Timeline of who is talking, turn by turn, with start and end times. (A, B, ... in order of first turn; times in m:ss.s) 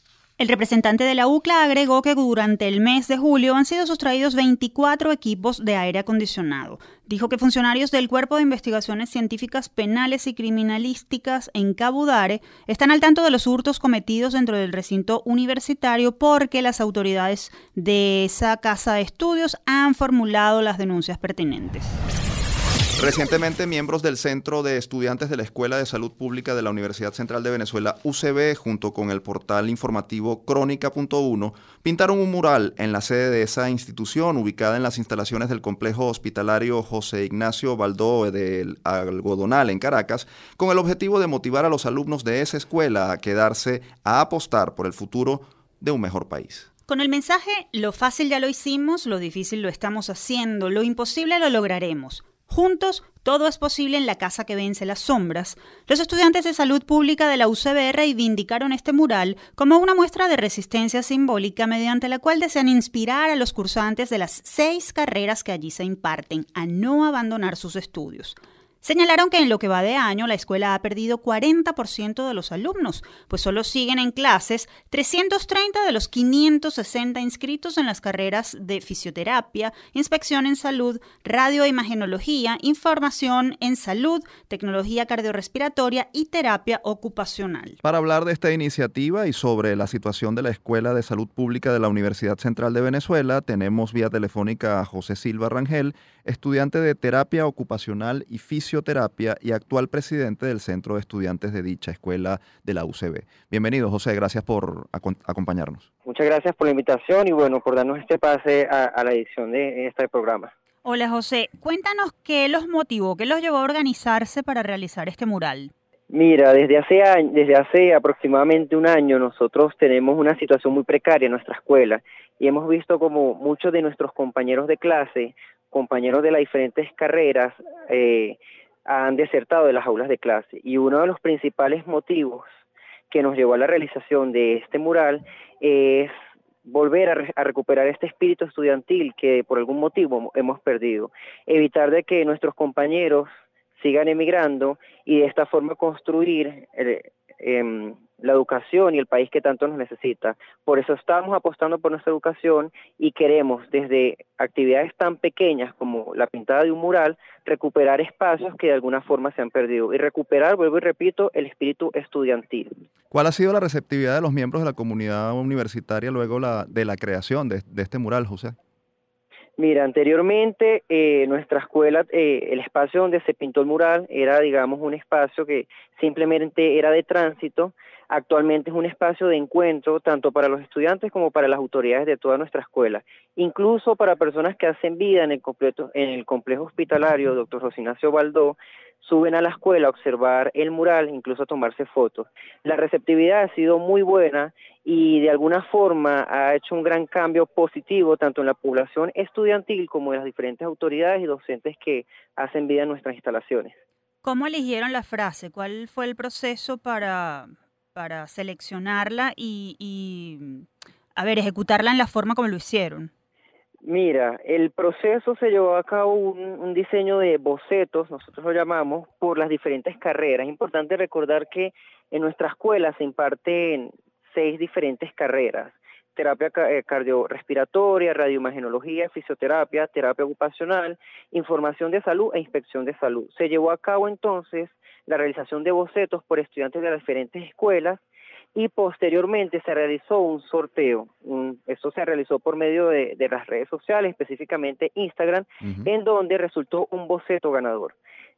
0:00.4-0:22.0 A
0:23.0-0:46.7 B
0:46.9-1:27.8 A
1:27.8-1:45.9 B
1:46.0-1:50.5 C
1:50.8-1:55.7 A
1:56.1-2:12.4 C
2:13.1-2:16.1 C
2:16.6-2:42.7 C
2:43.1-2:48.6 B
2:49.6-3:23.7 C
3:24.2-3:33.1 A
3:33.8-3:58.0 C
3:58.5-4:07.9 C
4:05.6-4:05.9 B